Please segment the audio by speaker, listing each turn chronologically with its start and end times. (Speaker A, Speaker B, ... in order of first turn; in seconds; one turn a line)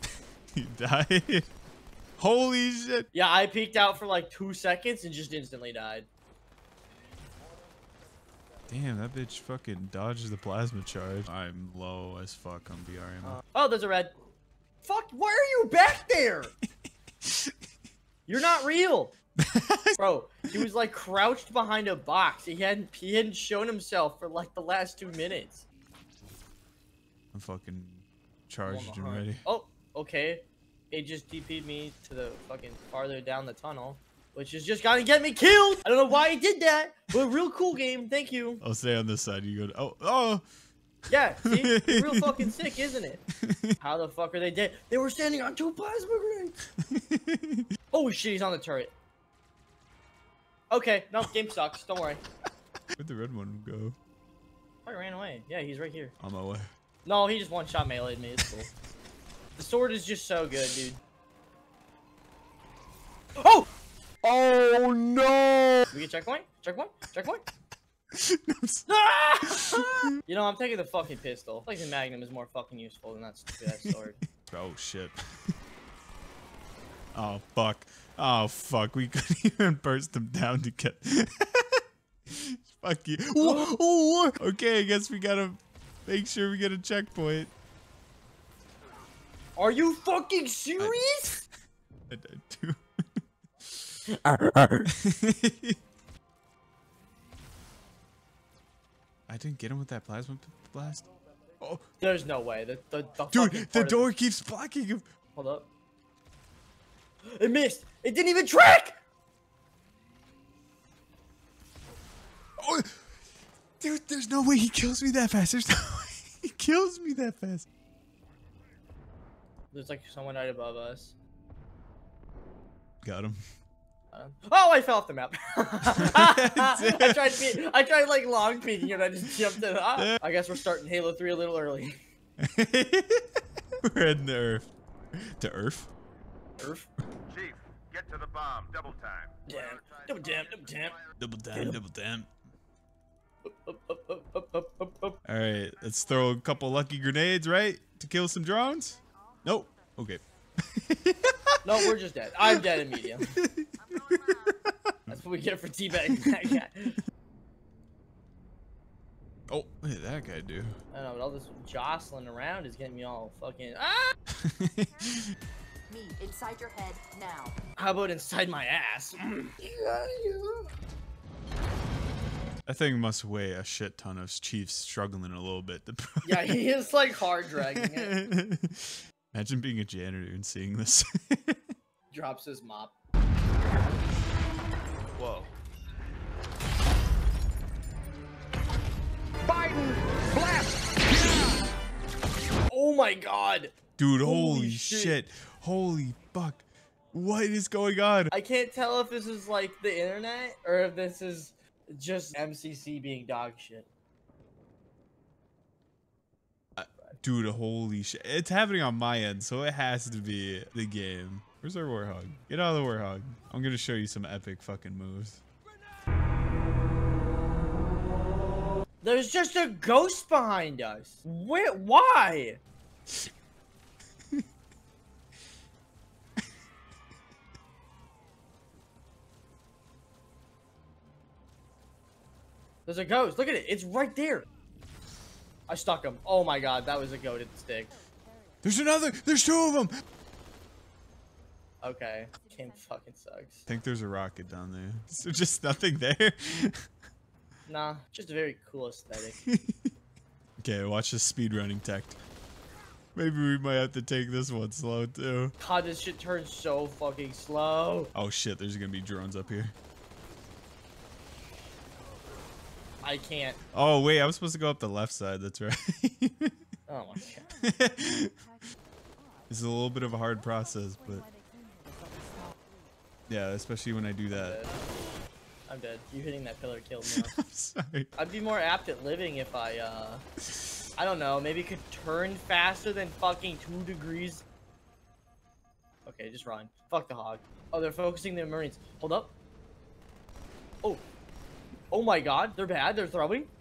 Speaker A: 0.5-1.5
Speaker A: 2.2-3.1
Speaker B: 3.1-6.1
Speaker A: 8.7-13.4
Speaker B: 13.2-14.1
Speaker B: 14.8-16.6
Speaker A: 17.2-17.5
Speaker B: 18.3-19.1
Speaker A: 19.4-20.0
Speaker B: 20.0-25.7
Speaker A: 27.3-29.4
Speaker B: 28.7-38.6
Speaker A: 38.6-40.4
Speaker B: 41.1-43.2
Speaker A: 41.5-42.5
Speaker A: 43.4-43.8
Speaker B: 43.8-46.6
Speaker A: 46.8-47.7
Speaker B: 47.9-48.9
Speaker B: 50.7-52.2
Speaker A: 53.0-54.0
Speaker B: 54.9-56.1
Speaker A: 56.2-56.7
Speaker B: 57.1-58.7
Speaker B: 59.6-61.0
Speaker B: 63.4-63.7
Speaker A: 64.3-65.7
Speaker B: 65.9-67.5
Speaker A: 68.1-68.9
Speaker B: 68.9-74.2
Speaker A: 69.4-70.1
Speaker A: 74.5-75.2
Speaker A: 77.1-87.5
Speaker B: 83.4-83.7
Speaker B: 89.6-91.3
Speaker A: 90.8-91.4
Speaker A: 92.1-94.0
Speaker A: 94.9-95.8
Speaker A: 99.3-101.1
Speaker B: 102.0-104.1
Speaker A: 103.3-105.1
Speaker B: 105.3-105.7
Speaker B: 107.2-109.0
Speaker A: 112.6-113.0
Speaker A: 113.8-117.7
Speaker B: 119.7-121.2
Speaker A: 123.0-123.4
Speaker B: 124.1-132.0
Speaker A: 125.9-127.5
Speaker A: 132.4-135.9
Speaker B: 136.6-136.9
Speaker C: 137.3-139.3
Speaker B: 139.5-141.0
Speaker A: 141.2-142.3
Speaker B: 141.5-141.8
Speaker B: 143.5-145.2
Speaker A: 145.3-151.9
Speaker B: 151.6-153.4
Speaker A: 153.3-155.1
Speaker B: 155.1-157.0
Speaker A: 159.5-160.8
Speaker B: 160.9-164.2
Speaker A: 164.4-165.3
Speaker D: 165.9-167.6
Speaker B: 167.8-170.7
Speaker A: 172.7-176.6
Speaker B: 176.2-178.2
Speaker A: 177.6-181.6
Speaker B: 182.1-182.9
Speaker A: 185.2-185.5
Speaker B: 192.7-195.2
Speaker A: 194.0-198.3
Speaker B: 198.3-203.9
Speaker A: 206.8-215.4
Speaker B: 219.0-222.6
Speaker B: 232.9-234.5
Speaker B: 235.7-237.9
Speaker A: 238.6-239.9
Speaker B: 241.8-243.7
Speaker A: 243.7-246.8
Speaker B: 247.7-249.4
Speaker A: 249.4-249.9
Speaker A: 250.6-252.2
Speaker A: 253.2-255.5
Speaker B: 255.6-258.1
Speaker A: 258.1-259.7
Speaker B: 263.0-263.6
Speaker A: 263.7-266.5
Speaker B: 266.9-267.5
Speaker A: 267.6-268.3
Speaker A: 269.5-271.3
Speaker D: 271.9-272.5
Speaker A: 273.3-274.6
Speaker B: 274.3-274.7
Speaker B: 275.7-277.3
Speaker A: 277.1-278.1
Speaker B: 278.2-280.2
Speaker B: 281.0-284.4
Speaker B: 286.1-289.3
Speaker B: 291.9-293.5